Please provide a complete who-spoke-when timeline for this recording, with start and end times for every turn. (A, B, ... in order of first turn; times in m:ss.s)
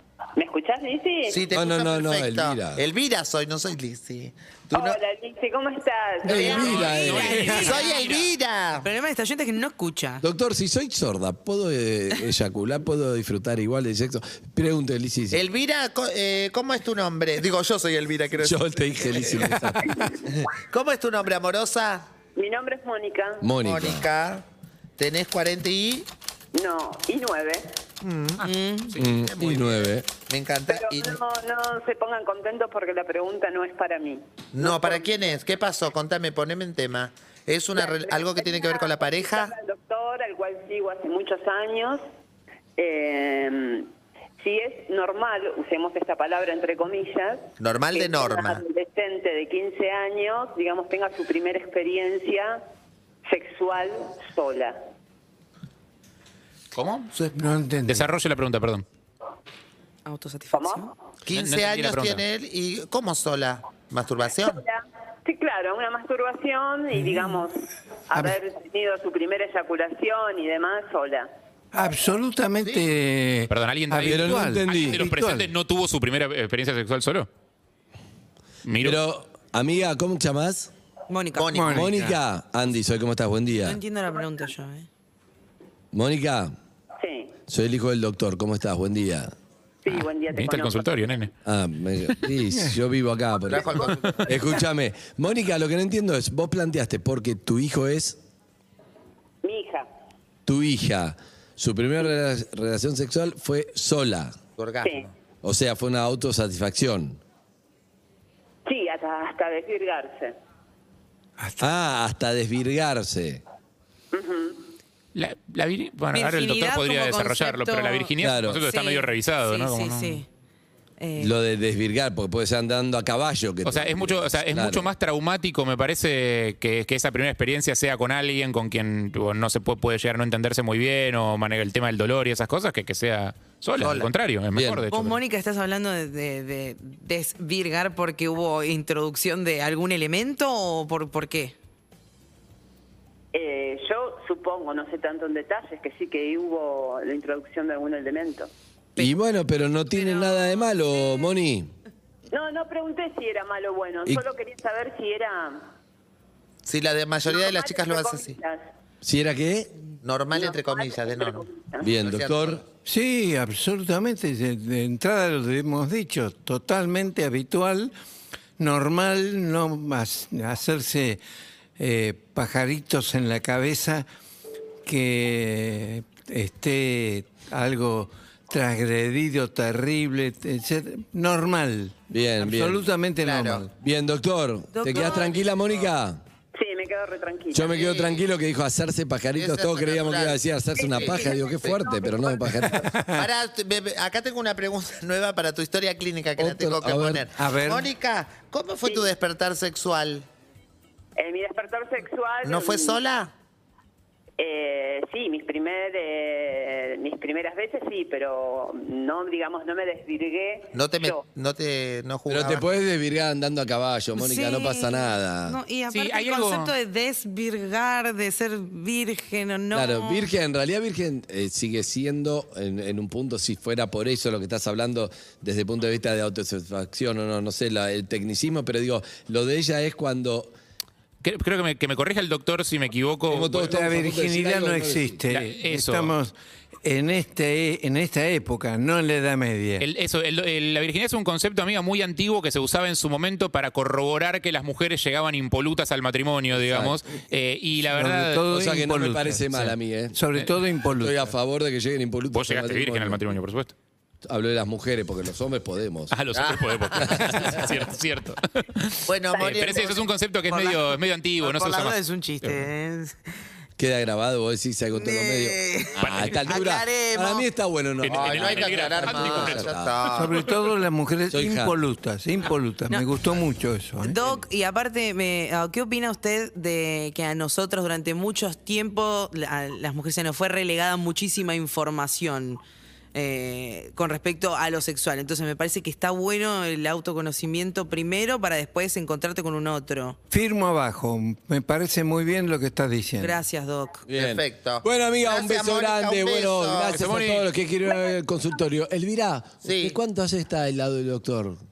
0:00.4-0:01.4 A
0:01.3-0:05.0 B
0:01.5-0:02.8 C
0:04.7-0:07.2 A
0:06.3-0:07.5 C
0:06.3-0:08.9 B
0:06.5-0:08.3 D
0:07.0-0:08.0 E
0:08.8-0:10.2 E
0:10.2-0:15.4 C
0:15.3-0:19.5 B
0:18.4-0:20.1 C
0:20.3-0:22.1 B
0:22.4-0:23.4 A
0:23.4-0:24.1 C
0:23.6-0:24.4 B
0:25.0-0:26.1 B
0:26.6-0:27.6 A
0:28.0-0:28.5 B
0:28.4-0:29.0 E
0:28.4-0:29.0 D
0:29.0-0:30.1 C
0:29.0-0:31.2 B
0:30.7-0:35.2 A
0:34.5-0:39.6 B
0:37.8-0:42.0 A
0:42.8-0:43.9 A
0:44.4-0:52.6 A
0:47.6-0:48.6 B
0:53.3-0:54.8 A
0:56.8-0:57.1 D
0:57.3-0:58.1 F
0:57.9-0:58.8 D
1:00.1-1:00.9 E
1:00.5-1:00.8 A
1:01.2-1:04.6 B
1:01.3-1:02.2 D
1:04.5-1:07.5 A
1:08.1-1:11.3 A
1:11.7-1:15.5 F
1:13.5-1:17.3 D
1:14.0-1:15.1 C
1:18.7-1:19.0 D
1:18.8-1:20.7 C
1:21.1-1:21.6 E
1:21.3-1:21.9 B
1:21.5-1:22.2 F
1:21.7-1:23.8 C
1:23.6-1:24.9 E
1:25.9-1:26.5 C
1:27.0-1:27.3 A
1:27.5-1:29.3 C
1:29.8-1:30.9 A
1:29.9-1:31.3 D
1:31.4-1:33.8 C
1:33.5-1:34.4 B
1:34.3-1:38.2 C
1:39.4-1:39.9 A
1:40.5-1:44.4 C
1:44.6-1:45.1 B
1:45.4-1:47.2 C
1:48.7-1:50.3 A
1:51.4-1:51.7 F
1:51.6-1:53.4 C
1:54.1-1:54.6 A
1:55.2-2:00.2 D
1:56.1-1:58.1 E
1:58.2-1:58.6 C
1:58.6-2:00.3 E
2:01.0-2:01.4 E
2:01.2-2:04.9 C
2:03.6-2:15.2 D
2:13.8-2:14.1 B
2:14.5-2:14.8 C
2:14.9-2:21.6 E
2:23.3-2:28.5 A
2:29.0-2:31.7 C
2:30.0-2:30.6 E
2:32.3-2:35.6 A
2:36.7-2:38.4 B
2:37.3-2:38.6 A
2:39.0-2:39.7 C
2:40.0-2:41.5 B
2:40.4-2:41.8 A
2:41.8-2:42.6 C
2:42.0-2:42.6 B
2:42.8-2:47.9 F
2:48.6-2:51.2 F
2:51.8-2:54.1 F
2:54.8-3:03.7 F
3:02.1-3:02.8 C
3:03.2-3:03.7 B
3:03.8-3:06.2 C
3:04.7-3:05.5 E
3:06.6-3:07.6 A
3:07.5-3:13.0 C
3:07.7-3:08.2 B
3:09.3-3:11.8 B
3:10.8-3:11.3 A
3:12.6-3:13.3 F
3:13.1-3:20.3 B
3:16.4-3:17.2 C
3:17.4-3:17.9 F
3:21.2-3:23.0 A
3:22.4-3:23.3 B
3:24.4-3:31.2 A
3:30.7-3:32.7 B
3:32.3-3:35.6 C
3:34.2-3:40.3 E
3:35.9-3:36.8 D
3:39.7-3:50.5 C
3:51.2-3:53.6 D
3:53.3-3:55.2 C
3:53.6-3:59.9 F
3:55.3-3:56.1 D
3:59.8-4:08.4 D
4:06.5-4:07.0 C
4:07.9-4:11.4 F
4:08.5-4:10.2 C
4:11.0-4:13.4 C
4:12.3-4:13.7 D
4:14.2-4:16.2 C
4:16.1-4:22.7 D
4:16.4-4:17.2 B
4:17.0-4:17.4 C
4:19.1-4:20.0 B
4:19.4-4:19.9 E
4:19.5-4:19.8 A
4:20.5-4:20.9 E
4:21.4-4:23.2 E
4:23.8-4:29.9 C
4:24.9-4:27.5 E
4:26.0-4:26.4 D
4:28.0-4:29.7 D
4:28.1-4:30.4 B
4:30.1-4:34.4 F
4:31.3-4:31.7 C
4:34.0-4:42.6 E
4:43.2-4:50.2 E
4:50.3-4:53.4 F
4:53.2-4:54.0 E
4:54.1-5:01.6 C
4:54.1-4:57.0 B
4:56.9-4:57.5 D
4:59.6-5:00.0 B